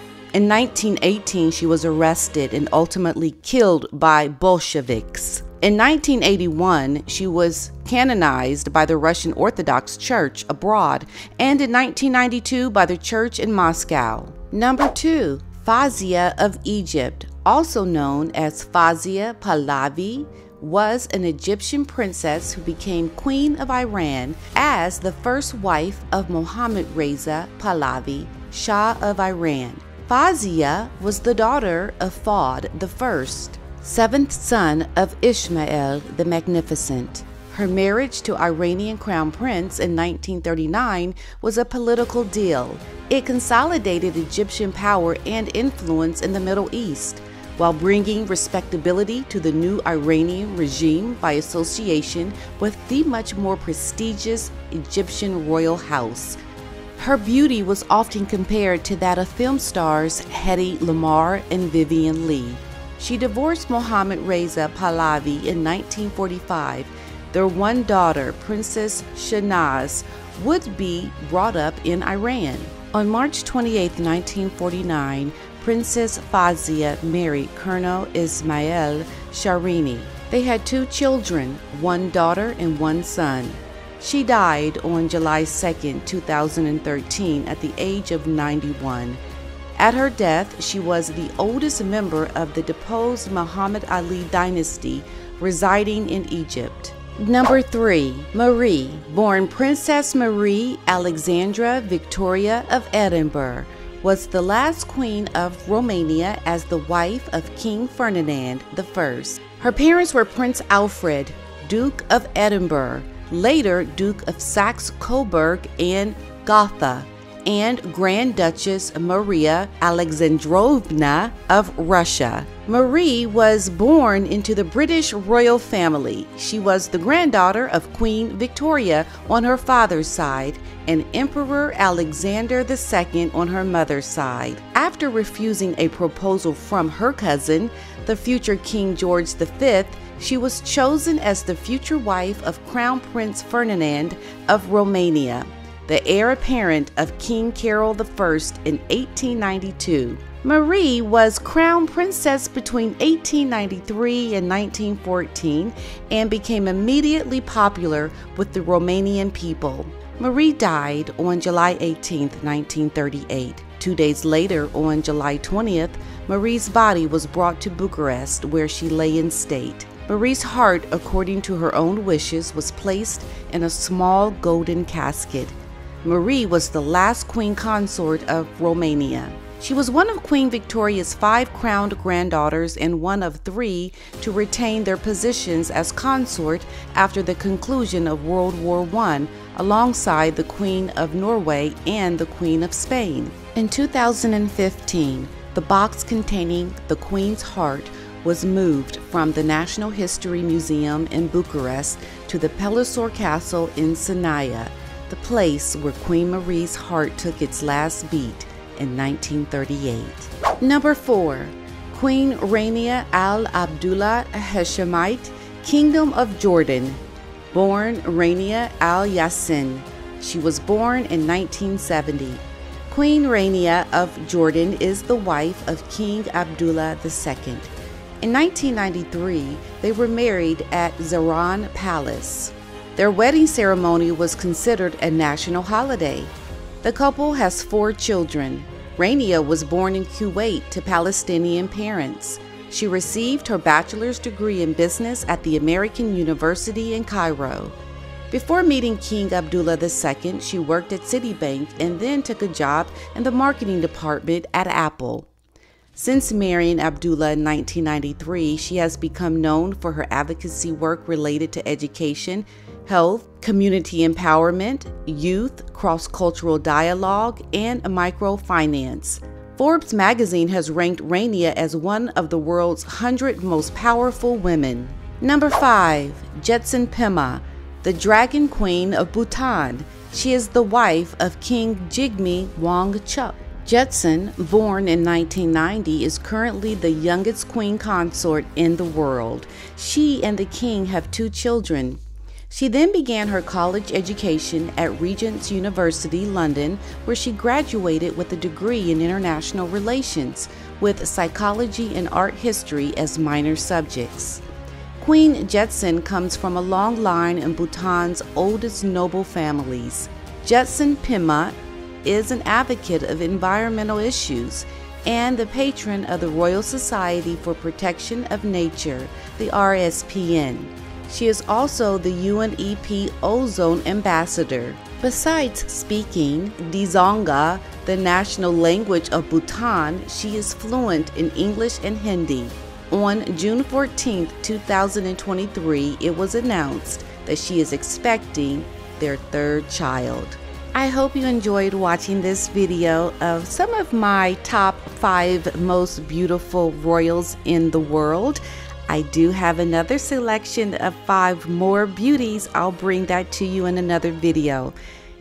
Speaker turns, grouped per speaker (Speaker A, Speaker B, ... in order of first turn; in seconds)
Speaker A: 0.3-56.4, 57.0-89.2, 89.8-217.0, 217.5-247.8, 248.3-255.3, 255.9-304.4, 305.0-354.8